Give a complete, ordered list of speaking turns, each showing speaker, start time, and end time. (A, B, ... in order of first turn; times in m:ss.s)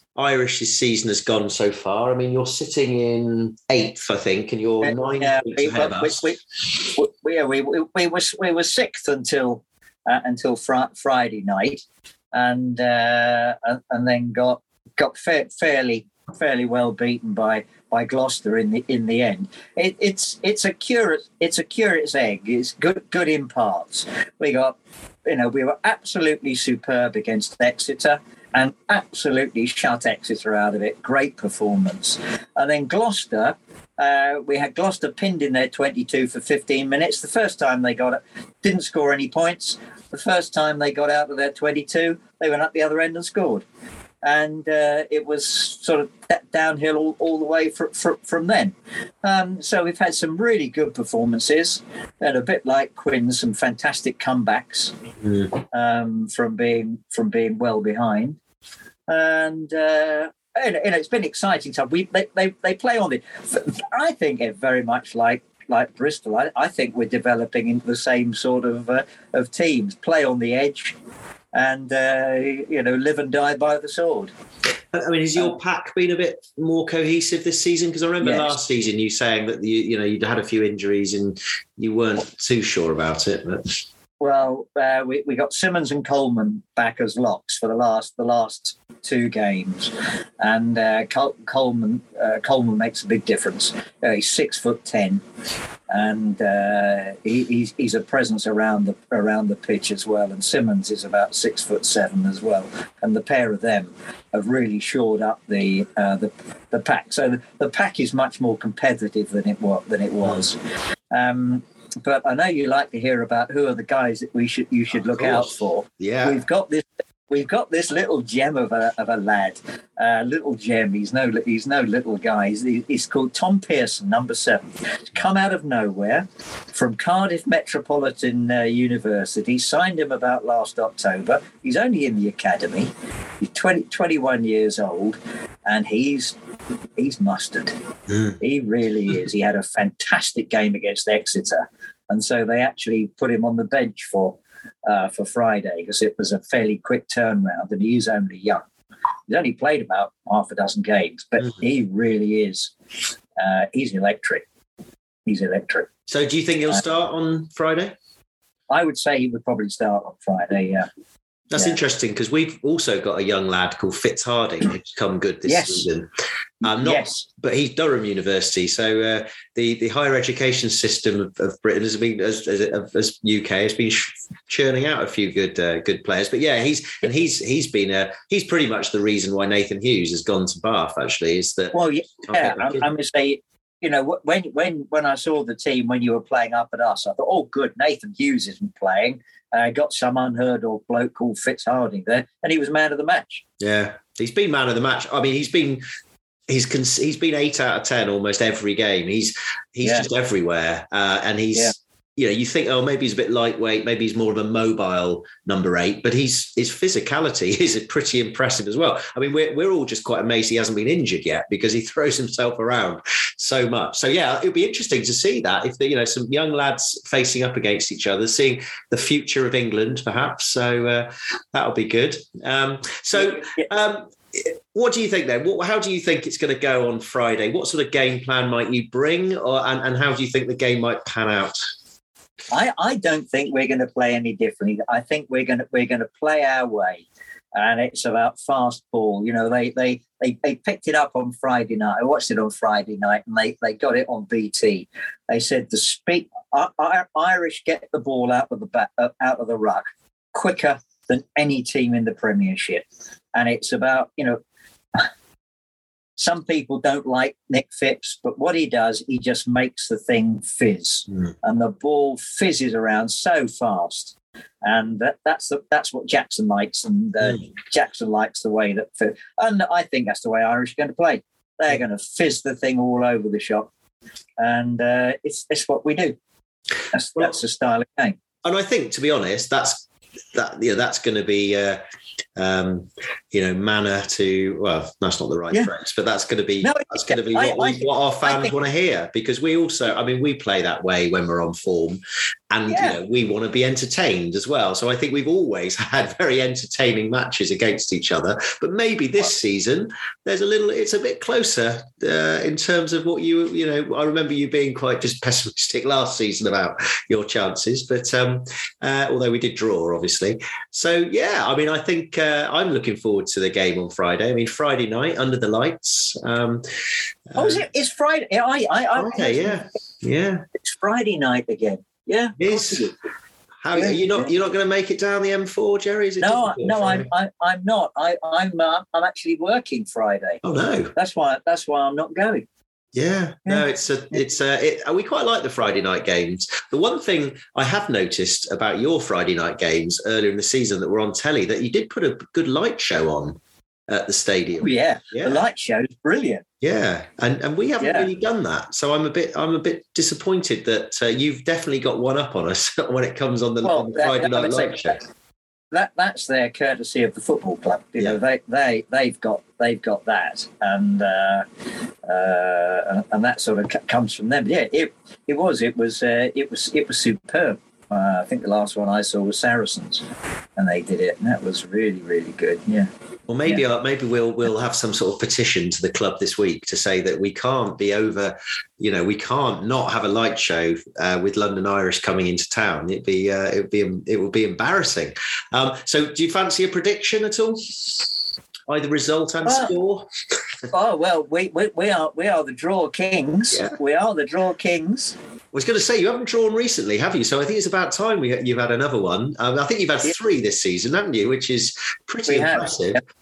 0:00.2-0:06.3 A
0:04.8-0:43.6 B
0:44.2-0:54.9 B
0:55.2-0:55.5 A
0:55.6-0:58.4 B
0:59.1-1:11.0 B
1:11.5-1:14.3 B
1:14.9-1:23.8 A
1:18.2-1:18.5 B
1:24.2-1:35.2 B
1:35.9-1:50.6 B
1:51.1-2:16.3 B
1:55.2-1:55.5 A
1:56.0-1:56.4 A
2:17.0-2:17.7 B
2:18.1-2:18.3 A
2:18.4-2:28.6 B
2:29.3-2:32.7 B
2:33.4-2:34.4 B
2:35.2-2:35.9 B
2:36.1-2:38.0 A
2:38.7-2:40.9 B
2:41.5-2:46.1 A
2:45.5-2:45.8 B
2:46.6-3:02.8 A
2:46.6-2:47.2 B
3:01.7-3:13.4 B
3:13.6-3:15.8 A
3:16.5-3:51.6 A
3:43.2-3:43.7 B
3:52.5-4:14.4 B
4:16.2-4:33.7 B
4:34.4-4:36.2 B
4:36.9-4:38.2 B
4:38.4-4:41.8 A
4:42.4-5:16.6 A
4:46.6-4:48.5 B
5:17.3-5:17.6 A
5:17.3-5:19.6 B
5:18.9-5:20.4 A
5:20.6-5:22.9 B
5:22.4-5:22.9 A
5:23.6-5:27.1 A
5:23.7-5:24.3 B
5:26.2-5:30.4 B
5:30.4-5:30.9 A
5:31.0-5:32.4 B
5:32.9-5:45.4 A
5:44.6-5:46.4 B
5:46.6-5:55.0 A
5:47.8-5:48.1 B
5:53.6-5:55.0 B
5:55.7-6:01.4 B
6:02.0-6:10.0 B
6:10.6-6:12.9 B
6:13.3-6:28.1 A
6:28.7-6:30.1 A
6:29.4-6:29.7 B
6:30.7-6:35.2 B
6:35.5-6:43.0 A
6:42.3-6:43.0 B